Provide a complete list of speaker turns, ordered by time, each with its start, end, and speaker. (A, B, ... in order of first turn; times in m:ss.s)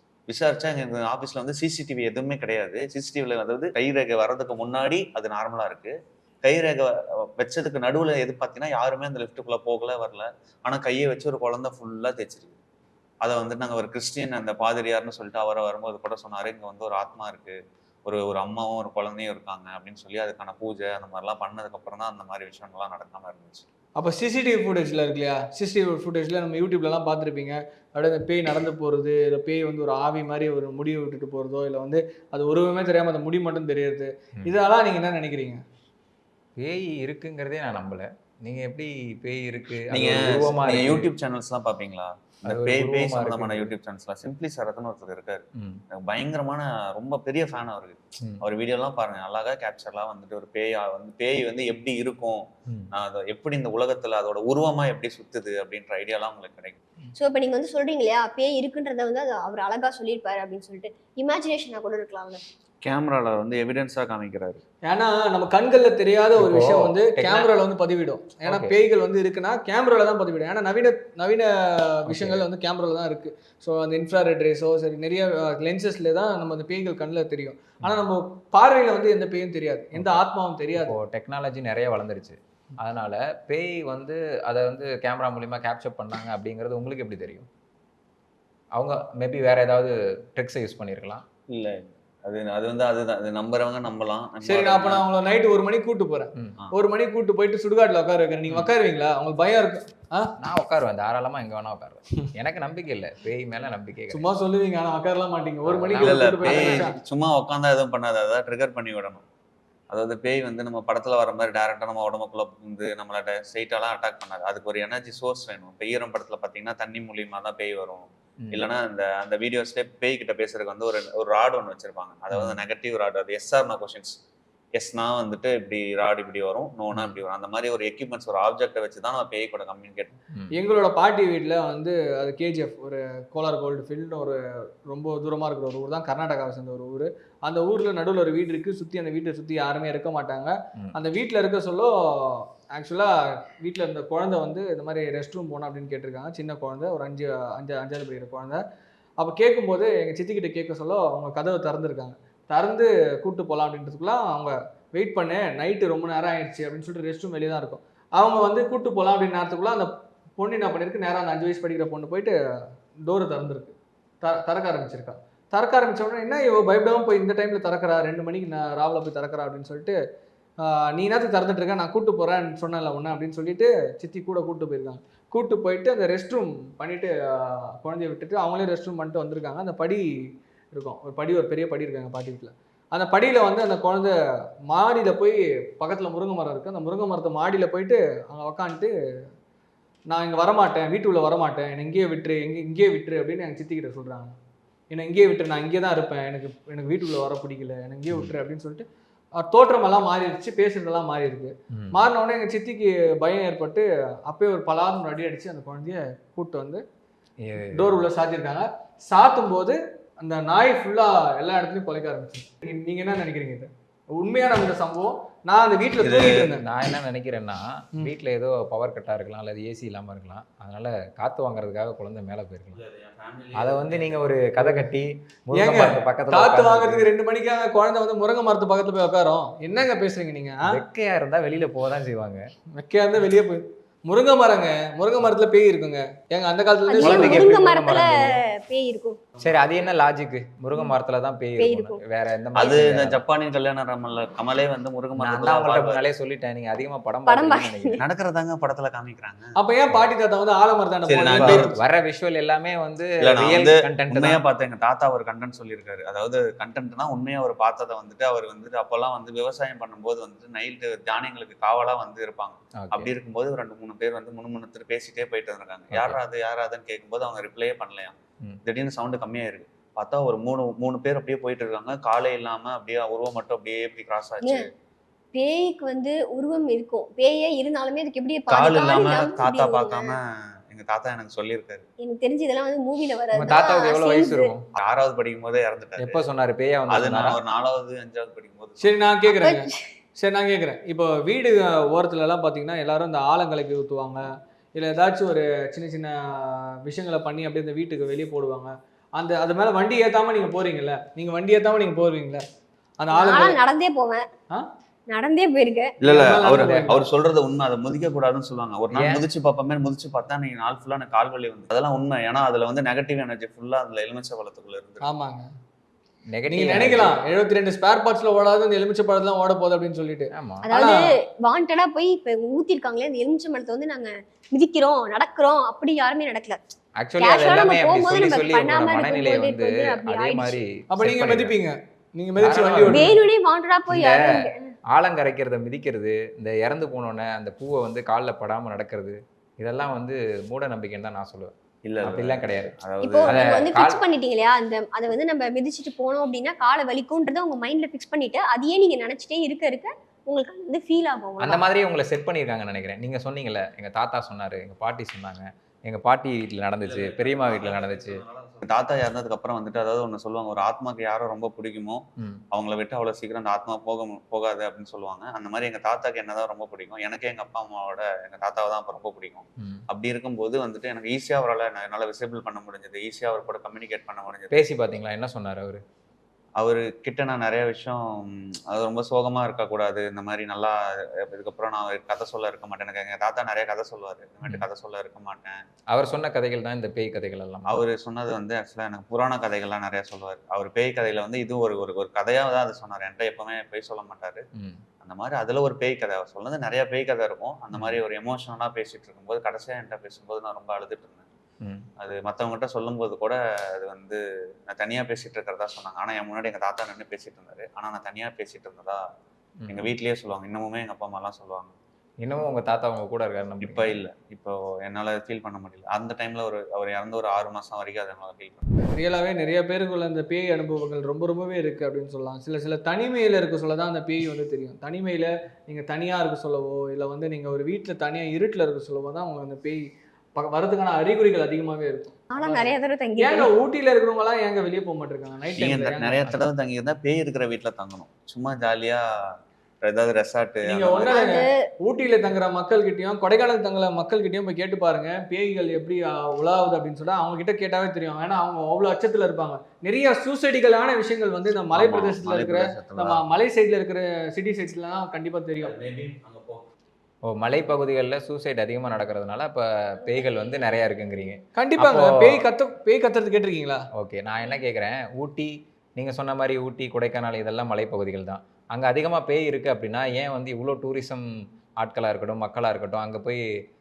0:00.3-0:12.6 A
0:13.2-0:23.7 A
0:24.0-0:35.6 B
0:36.6-0:41.1 C
0:39.9-0:56.8 A
0:42.4-0:43.8 C
0:45.6-0:45.8 C
0:57.2-1:02.4 D
1:02.8-1:04.6 A
1:04.9-1:21.0 B
1:06.4-1:07.5 C
1:08.4-1:08.8 C
1:12.1-1:12.5 C
1:19.9-1:20.2 C
1:20.8-1:27.5 C
1:28.8-1:31.2 C
1:31.5-1:35.1 A
1:34.4-1:40.3 B
1:40.4-1:44.2 C
1:44.1-1:47.0 B
1:45.6-1:46.8 C
1:46.0-1:49.2 A
1:49.9-2:04.2 A
2:02.3-2:02.6 C
2:04.8-2:10.1 A
2:10.5-2:28.6 B
2:29.2-2:42.4 B
2:43.1-2:50.0 B
2:50.6-3:04.2 B
3:04.7-3:09.3 B
3:10.1-3:14.4 B
3:14.9-3:18.9 B
3:19.4-3:26.8 B
3:21.7-3:22.1 C
3:27.4-3:28.0 C
3:27.7-3:36.6 B
3:36.0-3:36.5 A
3:36.6-3:42.8 C
3:42.8-3:44.2 A
3:43.6-3:47.1 C
3:44.6-3:44.9 B
3:45.5-3:50.8 B
3:50.6-3:52.4 C
3:52.8-3:57.5 B
3:56.9-3:59.2 D
3:57.0-3:58.4 C
3:57.0-3:57.4 A
3:59.4-4:03.2 C
4:01.6-4:02.0 D
4:02.6-4:06.0 A
4:05.2-4:08.0 C
4:07.3-4:08.0 D
4:08.0-4:09.5 A
4:09.6-4:11.7 B
4:11.1-4:11.8 A
4:11.4-4:14.4 C
4:13.2-4:34.7 A
4:22.8-4:23.1 C
4:25.9-4:26.2 C
4:34.4-4:34.7 D
4:35.3-4:40.1 D
4:38.5-4:41.9 A
4:42.0-4:44.5 D
4:43.4-4:44.7 C
4:44.8-4:46.2 A
4:46.0-4:47.4 C
4:46.9-4:48.9 A
4:48.8-5:02.4 B
4:49.3-4:49.9 D
5:03.0-5:03.6 B
5:03.1-5:04.3 D
5:05.1-5:06.0 D
5:06.0-5:15.1 A
5:06.0-5:07.1 B
5:08.9-5:09.3 C
5:15.0-5:15.5 B
5:16.3-5:17.2 C
5:16.5-5:21.1 B
5:20.3-5:20.7 C
5:20.7-5:26.6 D
5:27.0-5:31.5 C
5:27.2-5:30.6 D
5:30.9-5:33.1 B
5:32.4-5:33.2 C
5:32.9-5:34.7 D
5:33.9-5:34.2 C
5:34.9-5:44.0 C
5:41.8-5:43.4 A
5:43.0-5:51.6 D
5:51.4-5:58.2 C
5:56.8-6:14.6 A
6:09.6-6:09.8 C
6:14.5-6:15.8 C
6:16.6-6:25.6 A
6:25.9-6:27.8 C
6:27.7-6:34.4 A
6:34.6-6:34.8 C
6:35.0-6:41.3 A
6:37.7-6:38.0 C
6:41.6-6:41.9 C
6:42.0-6:49.0 A
6:49.6-6:49.9 C
6:49.7-6:51.7 A
6:52.2-6:54.0 C
6:53.6-6:58.9 A
6:58.8-7:16.4 B
7:12.3-7:13.5 D
7:15.6-7:21.2 A
7:20.6-7:35.8 B
7:21.1-7:21.7 D
7:31.7-7:33.2 A
7:35.6-7:36.7 A
7:37.3-7:42.4 C
7:41.6-7:43.9 B
7:44.0-7:51.2 C
7:51.8-7:53.4 C